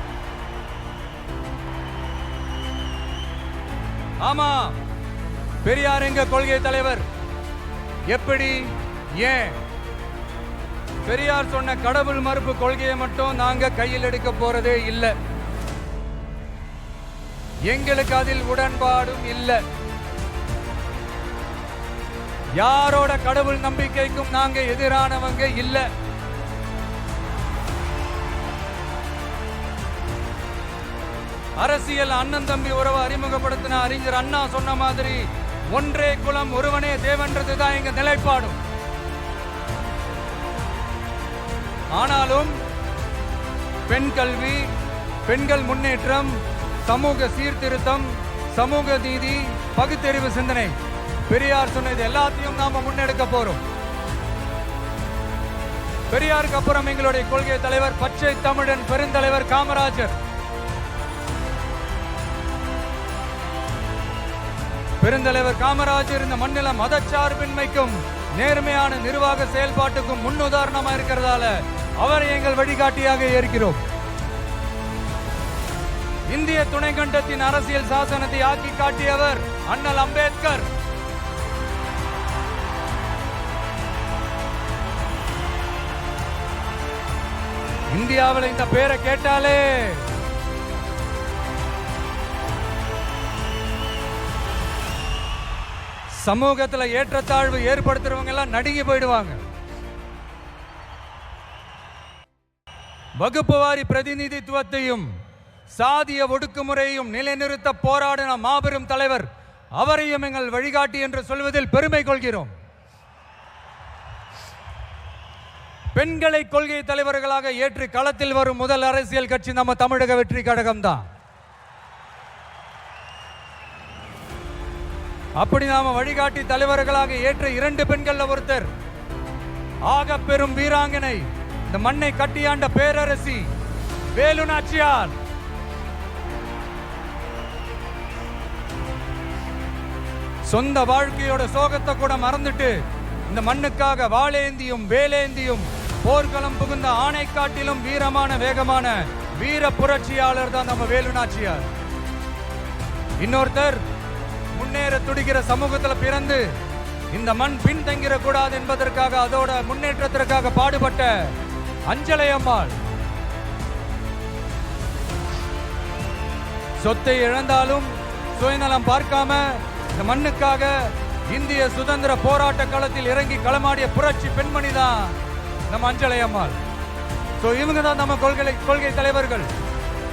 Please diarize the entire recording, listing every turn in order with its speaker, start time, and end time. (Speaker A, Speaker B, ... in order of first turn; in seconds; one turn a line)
Speaker A: 4.2-4.8
Speaker A: 5.6-7.1
Speaker A: 8.1-9.6
Speaker A: 11.1-15.2
Speaker A: 17.6-19.6
Speaker A: 22.6-25.9
Speaker A: 31.6-38.6
Speaker A: 41.9-42.6
Speaker A: 43.9-44.7
Speaker A: 45.3-53.6
Speaker A: 56.1-60.2
Speaker A: 65.0-73.8
Speaker A: 76.3-80.7
Speaker A: 87.9-90.1
Speaker A: 96.1-99.4
Speaker A: 103.2-105.1
Speaker A: 105.7-112.5
Speaker A: 115.9-121.1
Speaker A: 125.4-128.7
Speaker A: 129.8-133.5
Speaker A: 134.1-135.2
Speaker A: 140.4-151.7
Speaker A: 153.2-153.8
Speaker A: 154.5-156.6
Speaker A: 157.1-161.3
Speaker A: 161.9-162.8
Speaker A: 166.8-175.2
Speaker A: 175.7-176.6
Speaker A: 177.4-179.5